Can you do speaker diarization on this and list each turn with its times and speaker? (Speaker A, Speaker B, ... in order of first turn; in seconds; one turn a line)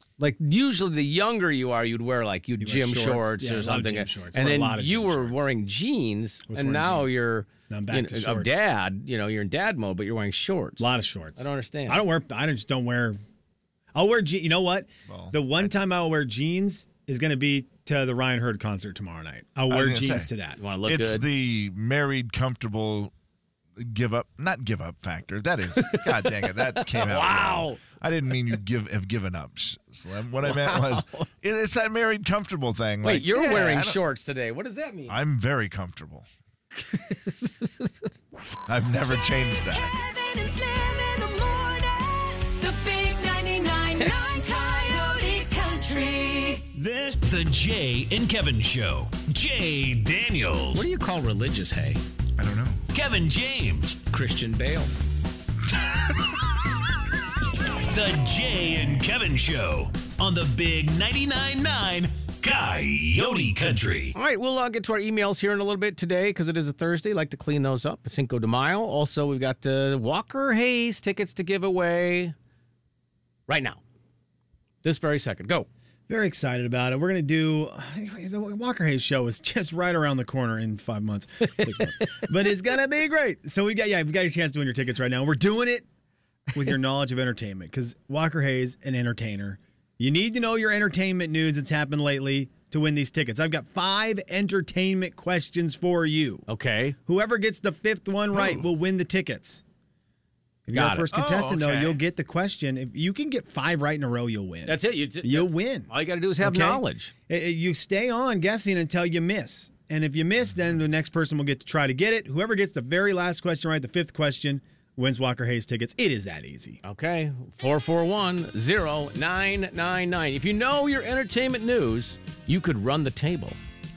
Speaker A: 0.2-12.0
Speaker B: 2.6-5.5
Speaker B: 6.5-7.2
Speaker B: 7.7-8.6
Speaker B: 10.8-13.2
Speaker B: 13.9-20.6
Speaker C: 15.1-15.7
Speaker C: 19.7-20.3
Speaker A: 20.6-21.3
Speaker C: 20.9-23.1
Speaker C: 23.8-34.0
Speaker A: 25.8-27.8
Speaker A: 30.4-31.3
Speaker A: 33.0-35.2
Speaker C: 35.1-36.3
Speaker A: 36.7-38.1
Speaker C: 38.7-40.0
Speaker D: 39.7-46.7
Speaker E: 46.7-50.9
Speaker A: 50.7-52.0
Speaker C: 52.4-52.8
Speaker E: 52.9-54.0
Speaker A: 54.1-54.9
Speaker C: 55.8-56.1
Speaker E: 57.9-64.1
Speaker A: 64.1-72.3
Speaker A: 73.5-73.8
Speaker A: 74.8-75.7
Speaker B: 76.1-85.9
Speaker B: 86.5-96.5
Speaker A: 96.5-97.0
Speaker B: 97.1-99.6
Speaker B: 100.7-105.9
Speaker A: 100.7-101.1
Speaker C: 101.1-102.0
Speaker A: 104.7-107.1
Speaker B: 106.4-116.8
Speaker A: 116.8-123.6